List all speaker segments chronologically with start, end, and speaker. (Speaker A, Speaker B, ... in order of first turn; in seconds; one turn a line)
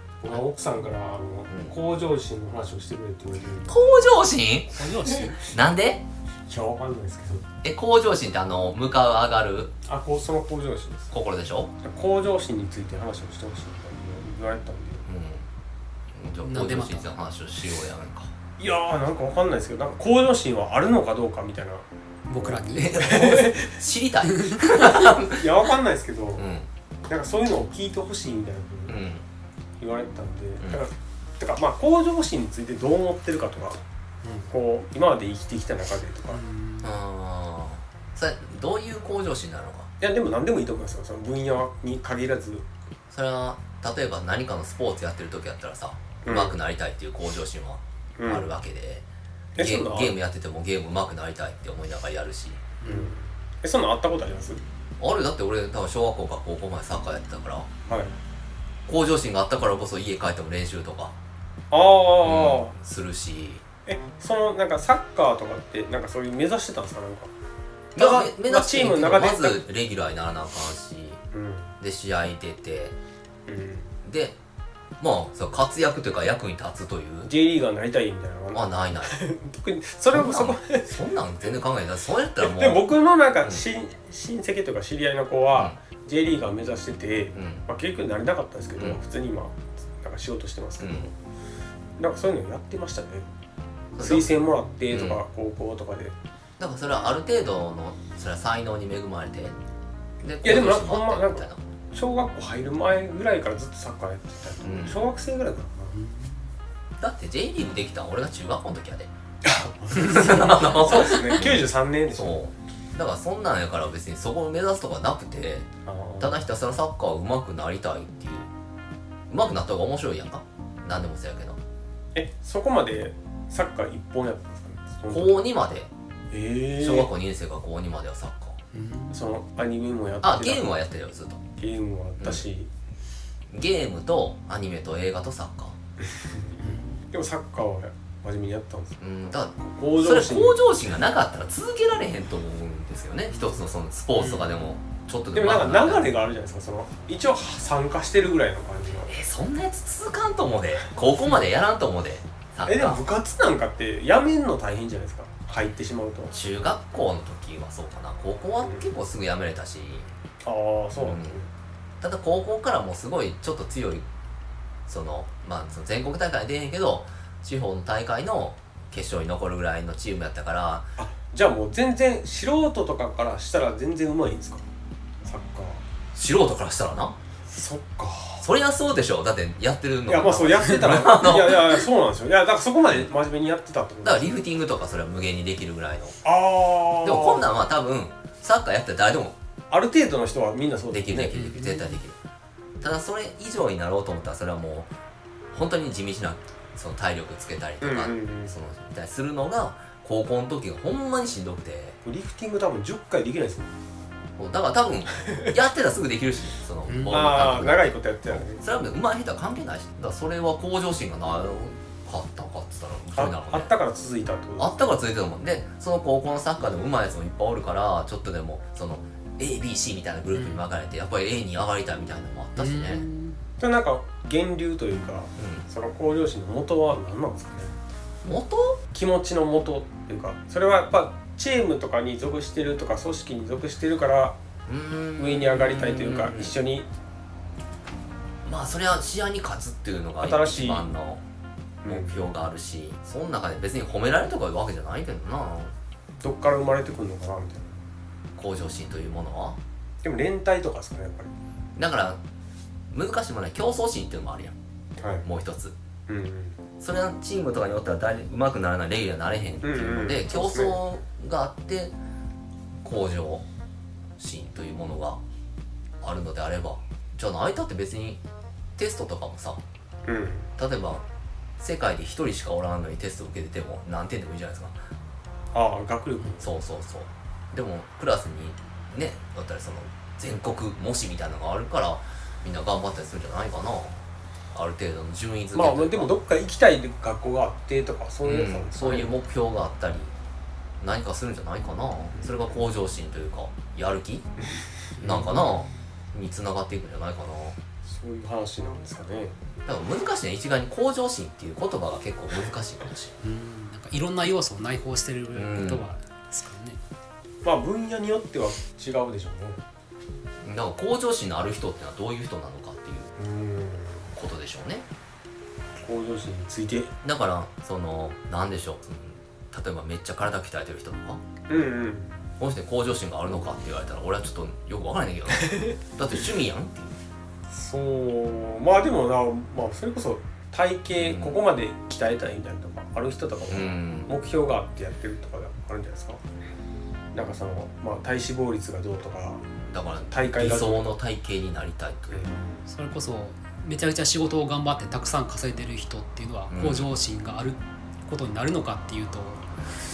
Speaker A: 0.2-3.8
Speaker B: 3.7-4.8
Speaker C: 4.8-5.4
Speaker A: 4.8-5.5
Speaker B: 5.3-6.0
Speaker A: 6.5-7.5
Speaker B: 7.6-9.7
Speaker A: 9.9-11.1
Speaker B: 11.1-11.7
Speaker A: 11.8-15.1
Speaker B: 15.1-15.5
Speaker B: 16.1-18.3
Speaker C: 16.4-17.1
Speaker A: 18.6-23.8
Speaker C: 22.3-22.9
Speaker B: 22.7-25.5
Speaker C: 24.3-25.1
Speaker A: 25.3-26.5
Speaker B: 26.4-26.7
Speaker A: 27.1-29.0
Speaker B: 28.9-29.3
Speaker A: 29.8-33.8
Speaker C: 34.2-34.5
Speaker A: 34.5-36.4
Speaker C: 36.3-36.9
Speaker B: 36.8-39.9
Speaker A: 40.0-42.7
Speaker B: 43.1-49.1
Speaker A: 46.2-46.6
Speaker A: 48.2-48.5
Speaker A: 49.6-50.1
Speaker B: 49.6-52.6
Speaker C: 52.8-53.1
Speaker A: 52.8-54.6
Speaker B: 55.0-57.7
Speaker A: 57.9-58.2
Speaker B: 58.9-61.2
Speaker A: 61.7-62.8
Speaker B: 62.2-63.6
Speaker A: 63.9-67.3
Speaker B: 68.0-71.2
Speaker A: 68.0-69.6
Speaker A: 71.3-71.7
Speaker B: 71.8-73.0
Speaker A: 73.5-73.9
Speaker B: 74.0-74.4
Speaker B: 75.0-77.3
Speaker A: 77.2-81.0
Speaker B: 78.5-79.2
Speaker B: 80.1-82.8
Speaker A: 82.4-91.1
Speaker B: 87.3-87.6
Speaker B: 90.8-91.1
Speaker A: 92.0-93.3
Speaker B: 93.9-94.3
Speaker A: 94.0-96.2
Speaker B: 94.9-95.2
Speaker B: 96.6-99.6
Speaker B: 100.2-101.6
Speaker A: 100.4-106.0
Speaker B: 104.6-105.0
Speaker C: 106.0-106.4
Speaker B: 107.0-109.1
Speaker A: 109.4-112.4
Speaker B: 109.9-115.7
Speaker A: 115.9-116.4
Speaker B: 116.2-118.5
Speaker B: 119.3-121.6
Speaker A: 122.2-125.4
Speaker B: 125.1-125.9
Speaker A: 126.3-127.1
Speaker B: 126.8-128.6
Speaker C: 128.7-129.2
Speaker A: 129.1-130.7
Speaker B: 130.2-131.4
Speaker A: 131.6-132.7
Speaker B: 132.2-132.5
Speaker B: 133.5-135.8
Speaker A: 136.0-139.0
Speaker C: 136.6-137.0
Speaker B: 139.0-146.1
Speaker A: 139.6-140.6
Speaker C: 143.3-143.6
Speaker C: 144.2-144.7
Speaker A: 145.3-149.2
Speaker B: 149.1-153.0
Speaker A: 152.7-156.3
Speaker B: 156.3-160.1
Speaker A: 158.6-158.9
Speaker A: 160.4-161.5
Speaker B: 161.0-161.4
Speaker B: 162.0-164.1
Speaker B: 164.9-170.9
Speaker A: 171.0-174.7
Speaker A: 175.2-175.8
Speaker B: 176.1-177.2
Speaker A: 177.5-178.4
Speaker B: 178.4-181.9
Speaker A: 180.1-184.4
Speaker B: 184.0-186.2
Speaker A: 186.2-187.5
Speaker B: 187.0-189.4
Speaker A: 189.7-191.4
Speaker B: 190.9-192.2
Speaker C: 191.3-192.0
Speaker B: 192.8-194.9
Speaker B: 195.5-202.0
Speaker A: 197.8-198.6
Speaker A: 202.1-203.7
Speaker B: 204.4-213.7
Speaker C: 206.9-207.3
Speaker A: 207.1-208.6
Speaker A: 213.2-214.9
Speaker B: 214.6-223.0
Speaker C: 220.3-220.6
Speaker C: 222.6-223.4
Speaker A: 223.6-227.8
Speaker B: 225.4-225.7
Speaker B: 228.2-228.8
Speaker A: 228.9-234.4
Speaker B: 234.7-236.6
Speaker A: 235.2-236.9
Speaker B: 238.4-241.2
Speaker A: 240.2-240.8
Speaker A: 241.8-242.3
Speaker B: 241.9-245.7
Speaker A: 246.2-247.8
Speaker B: 248.4-249.6
Speaker A: 250.0-251.3
Speaker B: 251.8-252.2
Speaker B: 252.9-254.6
Speaker A: 255.0-255.3
Speaker B: 255.2-255.8
Speaker A: 256.1-256.6
Speaker B: 256.8-261.9
Speaker A: 259.6-260.8
Speaker B: 262.8-263.5
Speaker B: 264.2-265.2
Speaker B: 266.0-268.2
Speaker B: 268.8-269.6
Speaker A: 270.1-270.5
Speaker B: 270.6-271.1
Speaker B: 271.6-274.8
Speaker A: 275.5-276.5
Speaker B: 276.4-284.0
Speaker B: 284.5-286.1
Speaker A: 285.5-289.1
Speaker B: 288.2-290.1
Speaker B: 290.8-294.3
Speaker A: 292.1-292.4
Speaker C: 295.0-295.7
Speaker B: 295.0-297.6
Speaker A: 297.9-299.4
Speaker B: 299.7-303.1
Speaker C: 303.2-306.8
Speaker B: 305.4-305.8
Speaker A: 307.4-309.6
Speaker B: 310.4-313.1
Speaker A: 313.2-314.1
Speaker B: 314.1-314.9
Speaker A: 315.8-316.9
Speaker B: 317.0-321.2
Speaker A: 321.5-322.2
Speaker B: 322.4-327.0
Speaker A: 327.5-336.2
Speaker B: 331.0-331.4
Speaker B: 333.5-334.1
Speaker A: 337.1-339.4
Speaker B: 339.7-342.2
Speaker A: 340.1-340.9
Speaker A: 342.1-342.6
Speaker C: 342.7-349.5
Speaker B: 346.5-346.9